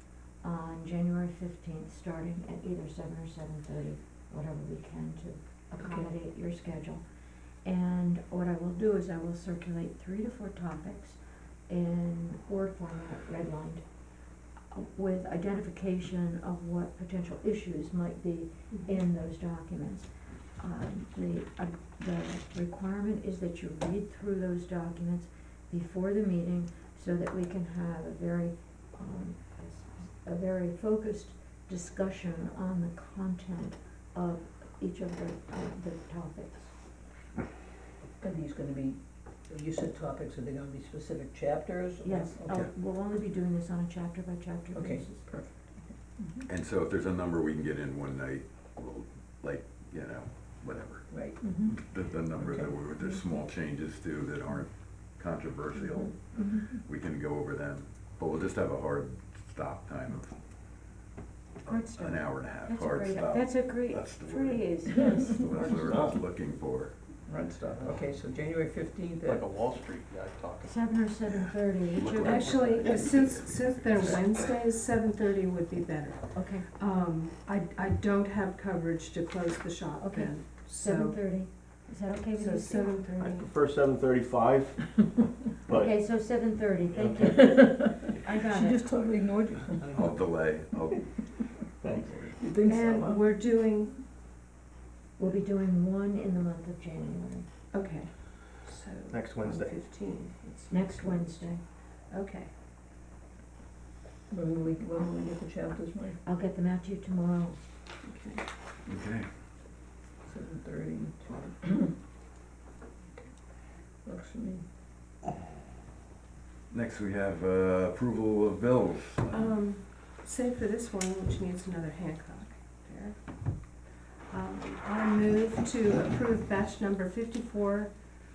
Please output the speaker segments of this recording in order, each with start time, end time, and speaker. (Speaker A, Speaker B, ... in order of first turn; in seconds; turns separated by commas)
Speaker A: 0.4-36.7, Speaker B: 5.8-6.1, Speaker B: 18.7-19.0, Speaker C: 38.2-42.7, Speaker A: 42.0-45.3, Speaker C: 44.7-46.4, Speaker D: 46.5-51.1, Speaker C: 51.1-51.6, Speaker D: 51.6-60.4, Speaker C: 52.3-52.8, Speaker A: 56.4-56.6, Speaker B: 61.6-62.2, Speaker D: 61.7-67.0, Speaker A: 62.6-65.4, Speaker C: 65.1-66.2, Speaker C: 67.3-69.7, Speaker E: 67.4-68.1, Speaker E: 69.2-70.8, Speaker A: 70.6-72.5, Speaker E: 72.0-74.4, Speaker B: 72.2-81.4, Speaker A: 76.3-76.7, Speaker A: 80.0-83.4, Speaker B: 82.3-83.5, Speaker E: 83.2-85.9, Speaker A: 85.7-88.9, Speaker E: 87.0-88.0, Speaker C: 87.2-90.0, Speaker E: 89.8-90.1, Speaker D: 89.9-92.3, Speaker E: 91.8-92.3, Speaker C: 92.4-93.3, Speaker B: 92.6-94.0, Speaker A: 95.2-97.5, Speaker B: 97.7-102.5, Speaker E: 99.1-99.7, Speaker A: 100.7-101.6, Speaker C: 104.3-106.2, Speaker A: 106.2-107.6, Speaker B: 108.0-108.4, Speaker D: 108.8-109.3, Speaker C: 110.2-111.9, Speaker C: 114.0-114.6, Speaker D: 116.7-119.5, Speaker B: 119.3-128.1